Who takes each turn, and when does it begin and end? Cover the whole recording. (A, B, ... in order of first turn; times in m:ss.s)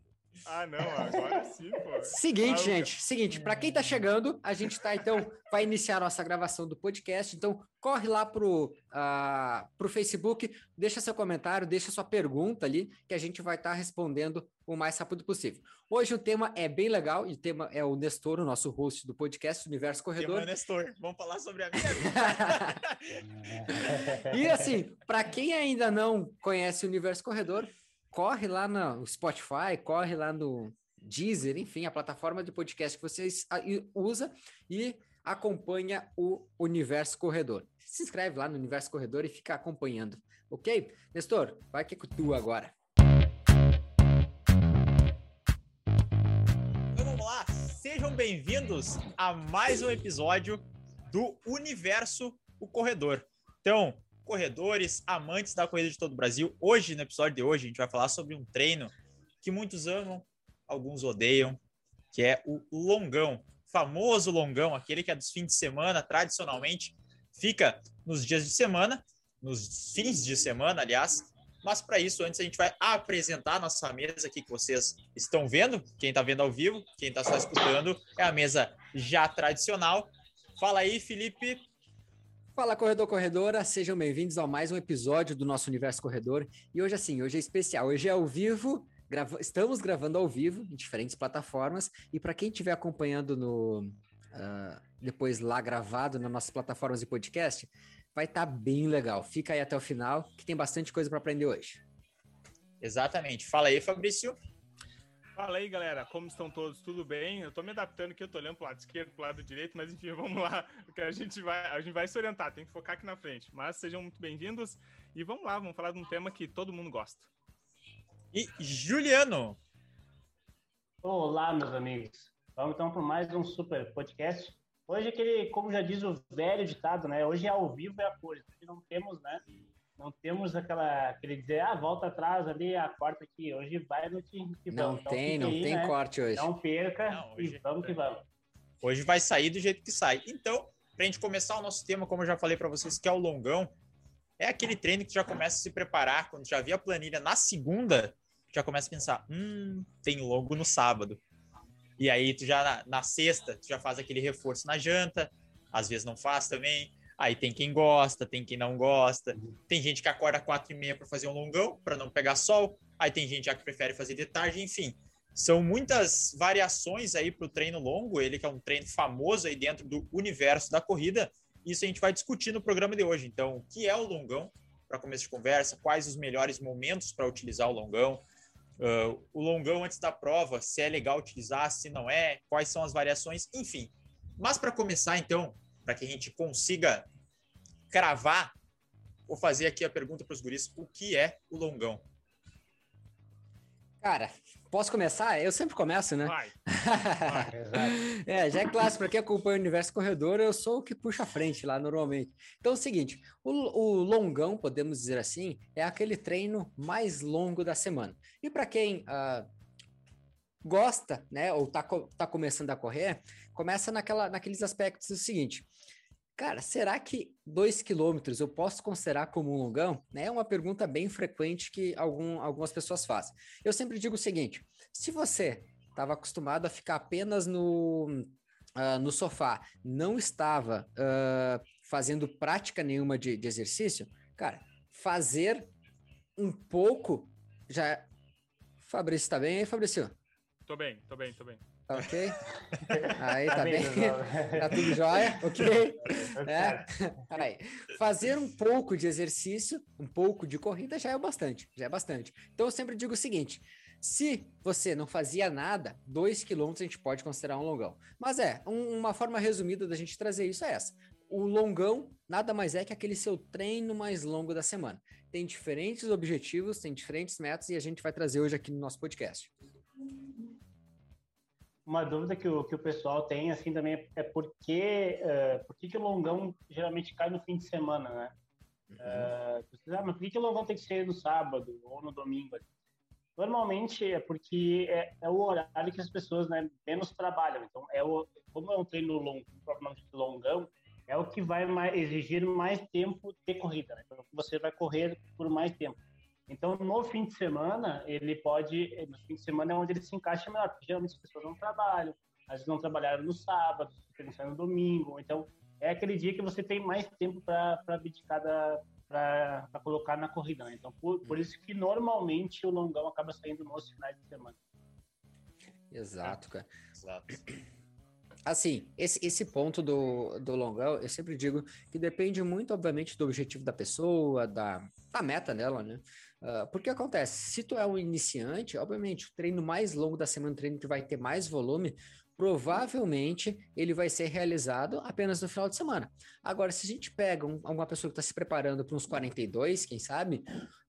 0:00.4-0:02.9 A
0:02.0-0:20.5 B
0:20.2-0:24.0 C
0:21.8-0:22.8 B
0:23.6-0:24.3 D
0:23.7-0:42.7 B
0:46.9-1:01.6 C
1:02.1-1:21.6 C
1:22.6-1:41.8 B
1:42.8-1:44.4 C
1:45.4-1:57.3 A
1:58.3-1:59.6 C
2:01.0-2:09.4 D
2:10.0-2:18.2 D
2:14.7-2:16.5 B
2:17.1-2:18.0 C
2:18.8-2:23.7 C
2:24.4-2:31.2 C
2:32.0-2:58.2 C
2:58.8-3:07.0 C
3:07.9-3:08.5 C
3:09.3-3:12.0 C
3:14.0-3:29.5 B
3:16.2-3:16.5 A
3:17.2-3:17.5 A
3:17.5-3:18.0 D
3:30.6-3:35.7 B
3:36.4-3:55.7 B
3:56.4-3:58.1 B
3:58.8-4:00.1 B
4:00.6-4:01.6 A
4:01.9-4:02.5 B
4:02.7-4:05.3 D
4:03.1-4:29.5 B
4:06.0-4:07.2 D
4:31.8-4:38.3 D
4:38.9-4:39.3 B
4:39.0-4:42.7 D
4:43.4-5:14.6 D
5:15.9-5:16.7 B
5:17.0-5:17.4 C
5:18.4-5:40.4 B